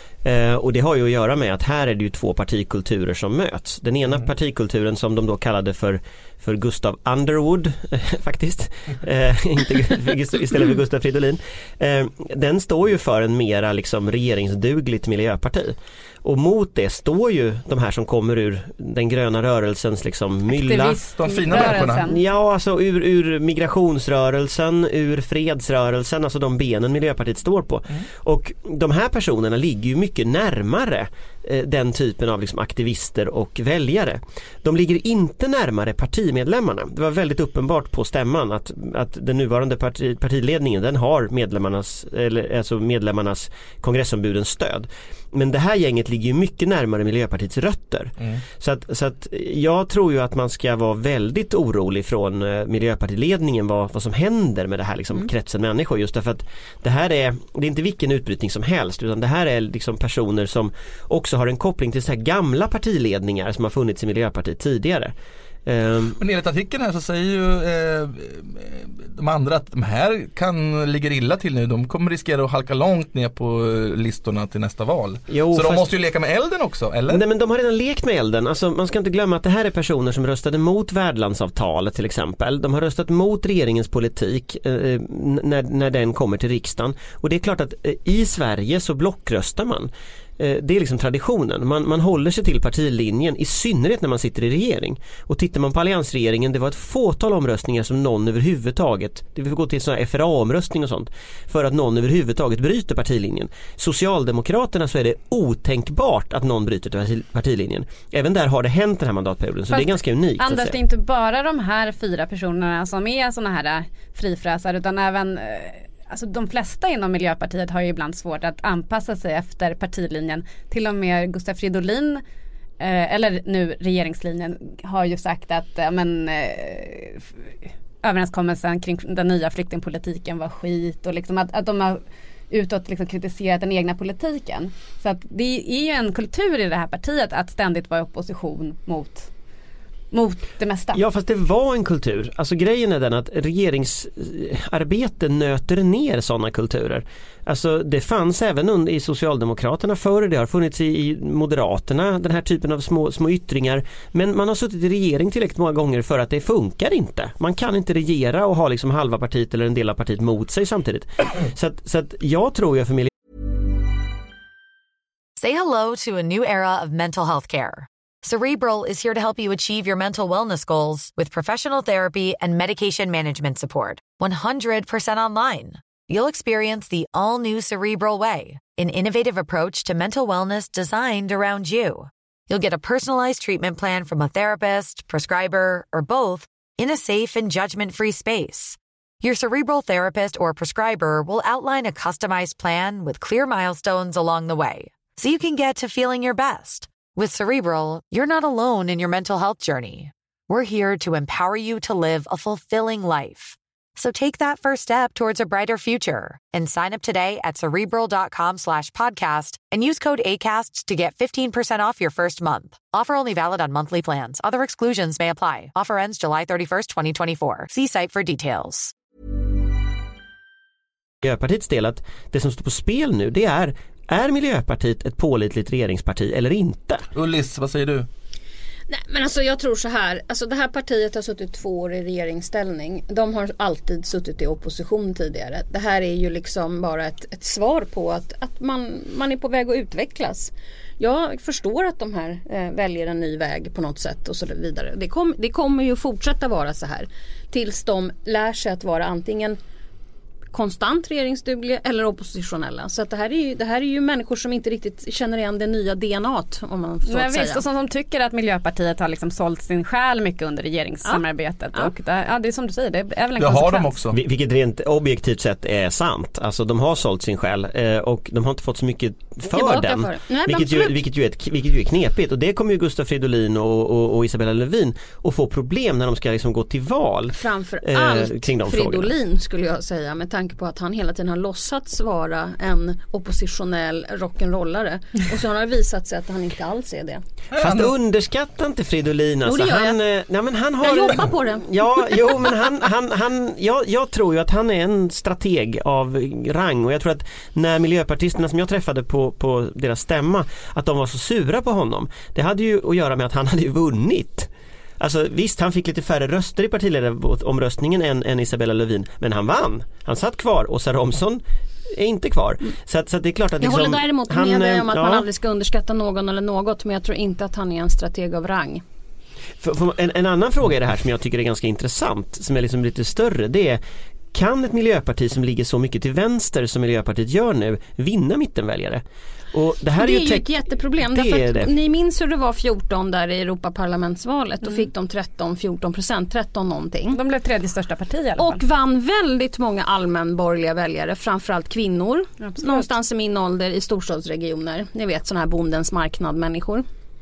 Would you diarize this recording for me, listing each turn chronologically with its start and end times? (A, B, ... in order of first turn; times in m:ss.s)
0:00.2-0:21.0 A
0:20.5-0:22.2 B
0:21.2-0:22.1 C
0:21.5-1:05.1 A
1:05.6-1:06.2 A
1:06.2-1:17.2 C
1:15.3-1:15.9 A
1:17.1-1:50.8 A
1:49.7-2:02.2 B
2:02.8-2:07.3 B
2:08.0-2:19.3 B
2:20.1-2:21.0 B
2:20.9-2:43.1 A
2:45.4-3:38.9 D
3:41.2-3:47.1 A
3:47.1-3:48.1 C
3:48.9-4:09.6 E
4:10.5-4:17.6 E
4:17.1-4:24.0 B
4:23.4-4:24.2 C
4:24.1-4:39.1 A
4:29.5-4:31.0 E
4:37.4-4:47.2 E
4:47.5-4:47.9 C
4:47.6-5:15.3 A
4:49.4-4:50.0 E
4:50.8-4:52.4 E
5:13.6-5:18.8 E
5:19.6-5:23.8 A
5:24.3-5:29.0 A
5:29.5-5:30.5 A
5:30.0-5:37.2 E
5:31.1-5:31.7 A
5:37.1-5:38.6 B
5:38.4-5:46.9 E
5:42.4-5:42.9 B